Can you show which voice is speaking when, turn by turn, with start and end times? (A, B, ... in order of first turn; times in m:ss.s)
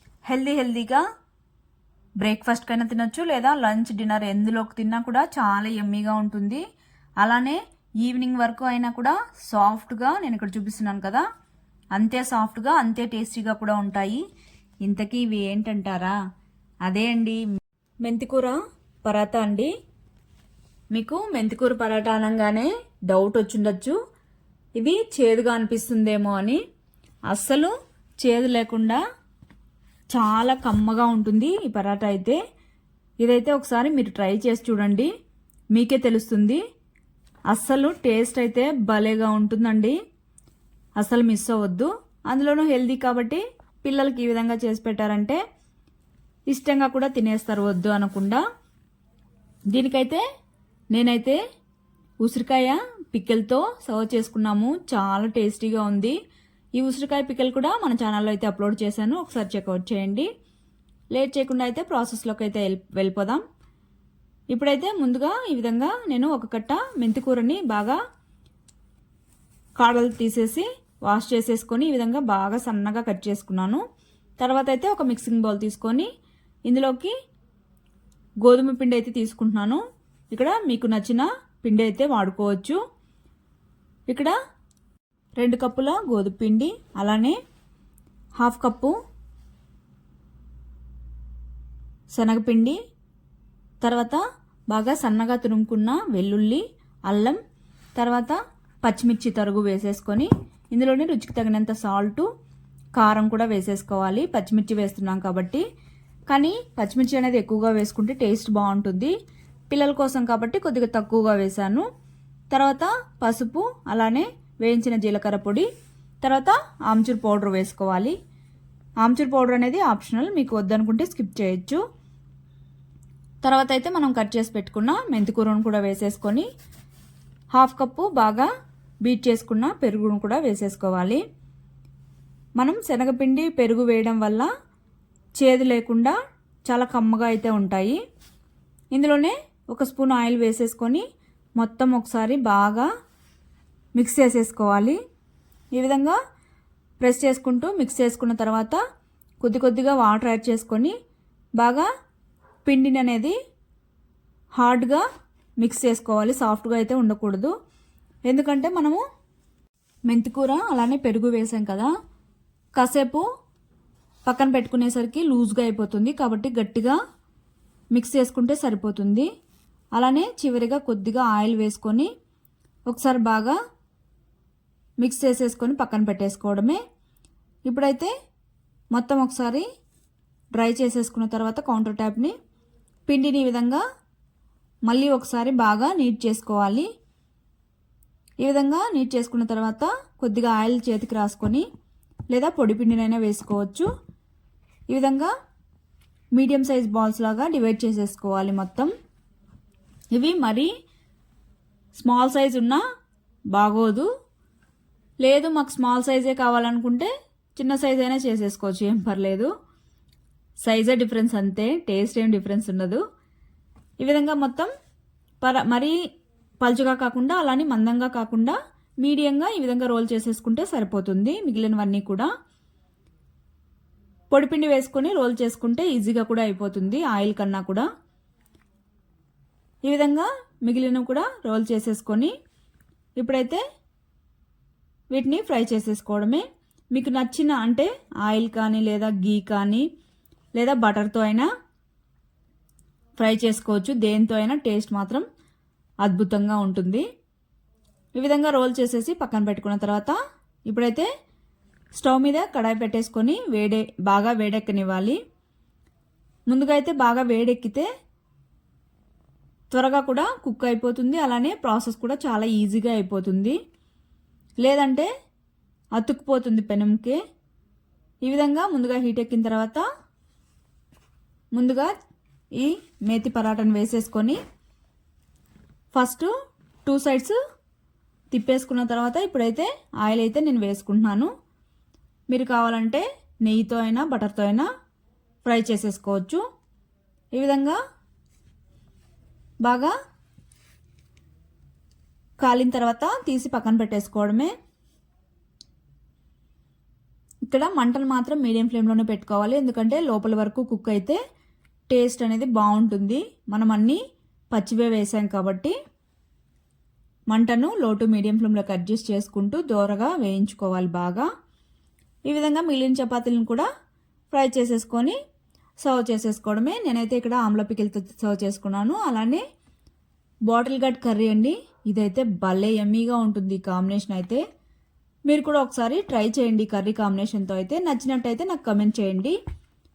0:00.3-0:01.0 A
0:02.2-0:06.6 A
0:07.2-0:11.2 A
0:11.9-0:14.2 A
0:14.8-0:16.2 A
0:16.8-0:17.4 A
0:18.0-0:19.7 A
0:20.9-0:24.0 A
0:24.8-0:26.6 A
0:27.3-0:29.0 A
0:30.1-0:32.4 A
0:33.2-0:35.1 A
0:35.7-0:36.6 A
0:37.5-0:40.0 A
0:41.0-0:45.4 A
0:46.5-0:48.4 A
0:49.7-0:50.2 A
0:50.9-0:51.4 A
0:52.2-0:56.2 A
0:56.8-1:00.3 A
1:01.1-1:03.4 A
1:04.5-1:08.0 A
1:09.8-1:13.8 A
1:14.4-1:16.1 A
1:16.7-1:17.1 A
1:18.4-1:22.8 A
1:24.1-1:24.3 A
1:25.4-1:27.4 A
1:28.4-1:29.0 A
1:32.1-1:32.8 A
1:33.8-1:37.4 A
1:38.0-1:42.3 A
1:43.0-1:45.6 A
1:46.3-1:49.1 A
1:49.7-1:51.9 A
1:52.5-1:55.7 A
1:56.2-1:58.2 A
1:59.0-2:01.8 A
2:03.4-2:06.5 A
2:07.5-2:08.5 A
2:09.0-2:11.2 A
2:12.6-2:14.5 A
2:15.4-2:18.0 A
2:18.9-2:21.0 A
2:21.6-2:22.9 A
2:24.0-2:25.0 A
2:25.8-2:26.2 A
2:27.0-2:28.8 A
2:29.4-2:31.0 A
2:31.6-2:31.9 A
2:32.7-2:33.4 A
2:34.6-2:35.0 A
2:35.6-2:37.5 A
2:38.3-2:39.0 A
2:40.1-2:41.9 A
2:42.8-2:43.2 A
2:44.3-2:47.0 A
2:47.9-2:49.3 A
2:50.0-2:52.1 A
2:52.9-2:53.6 A
2:55.0-2:56.8 A
2:57.7-2:58.1 A
2:58.9-2:59.6 A
3:00.6-3:02.4 A
3:03.1-3:03.8 A
3:04.9-3:06.9 A
3:08.4-3:11.7 A
3:12.3-3:13.9 A
3:14.9-3:15.3 A
3:16.4-3:18.9 A
3:20.1-3:20.7 A
3:22.0-3:22.8 A
3:23.5-3:24.1 A
3:25.2-3:29.5 A
3:30.6-3:33.0 A
3:34.0-3:34.7 A
3:35.4-3:36.0 A
3:36.6-3:42.3 A
3:44.3-3:47.9 A
3:49.9-3:52.3 A
3:53.2-3:53.6 A
3:55.1-3:59.9 A
4:00.6-4:01.5 A
4:03.2-4:05.2 A
4:06.0-4:07.0 A
4:08.2-4:10.2 A
4:10.7-4:11.1 A
4:12.0-4:15.2 A
4:16.5-4:17.9 A
4:19.7-4:23.6 A
4:24.6-4:25.1 A
4:26.0-4:27.2 A
4:28.2-4:29.8 A
4:31.6-4:31.9 A
4:32.6-4:34.4 A
4:35.9-4:36.3 A
4:36.9-4:37.4 A
4:38.3-4:41.3 A
4:42.3-4:44.7 A
4:45.5-4:46.4 A
4:47.4-4:47.8 A
4:49.6-4:49.9 A
4:52.4-4:54.5 A
4:57.5-5:01.2 A
5:01.9-5:04.0 A
5:04.5-5:05.8 A
5:07.3-5:11.3 A
5:12.3-5:13.7 A
5:14.3-5:15.2 A
5:15.8-5:19.4 A
5:20.5-5:24.4 A
5:25.3-5:29.4 A